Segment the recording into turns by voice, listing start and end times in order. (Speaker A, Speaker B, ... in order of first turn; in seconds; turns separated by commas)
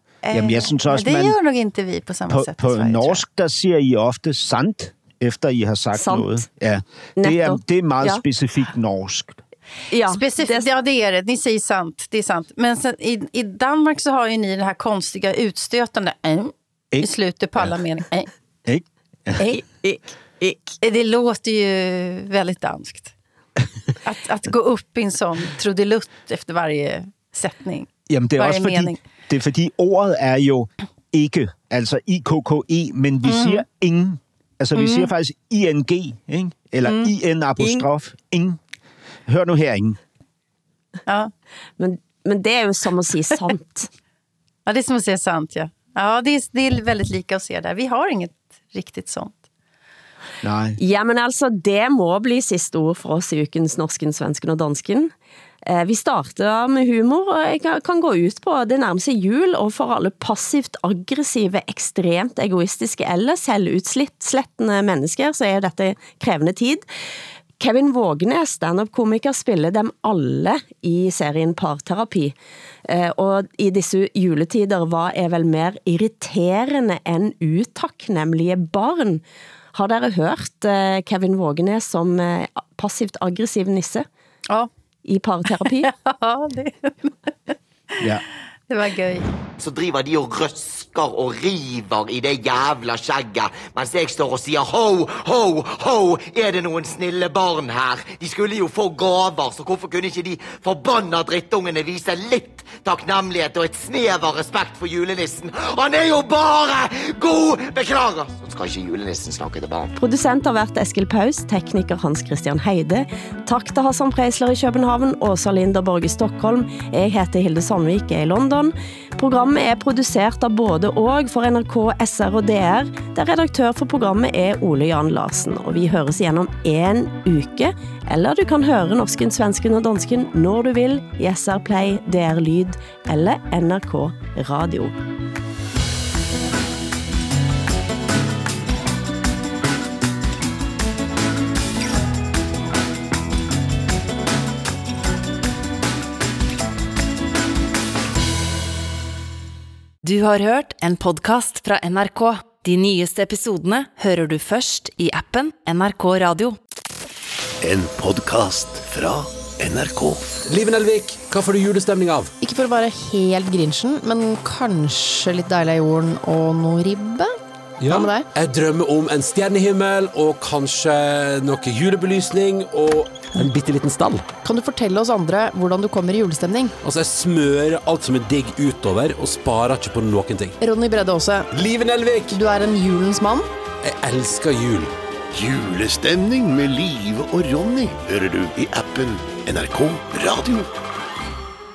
Speaker A: 0.2-3.2, Speaker B: 0.3-1.4, Speaker B: 2.3-9.4, Speaker C: 5.9-6.4, Speaker C: 7.2-8.2, Speaker C: 9.9-10.7, Speaker A: 10.1-18.3, Speaker B: 16.9-17.8, Speaker B: 18.6-19.4, Speaker C: 19.4-20.7, Speaker A: 20.8-23.1, Speaker A: 24.0-29.0, Speaker B: 28.1-38.6, Speaker A: 33.2-33.6, Speaker A: 34.7-35.1, Speaker A: 36.8-37.9, Speaker B: 39.3-40.0, Speaker C: 41.8-43.9, Speaker A: 44.6-49.4, Speaker B: 50.4-50.8, Speaker C: 50.8-55.1, Speaker C: 55.6-66.8, Speaker C: 67.6-72.3, Speaker C: 72.8-79.2, Speaker C: 79.7-84.0, Speaker C: 85.0-85.9, Speaker A: 85.8-87.1, Speaker A: 88.7-89.2, Speaker D: 89.6-109.9, Speaker C: 110.0-134.9, Speaker E: 150.0-156.6, Speaker F: 157.6-160.4, Speaker G: 160.4-162.3, Speaker H: 162.4-168.3, Speaker G: 167.8-174.3, Speaker H: 174.4-176.7, Speaker G: 176.8-180.6, Speaker H: 180.6-181.5, Speaker G: 181.5-182.4, Speaker H: 182.3-183.5, Speaker G: 183.8-184.9, Speaker F: 185.3-190.7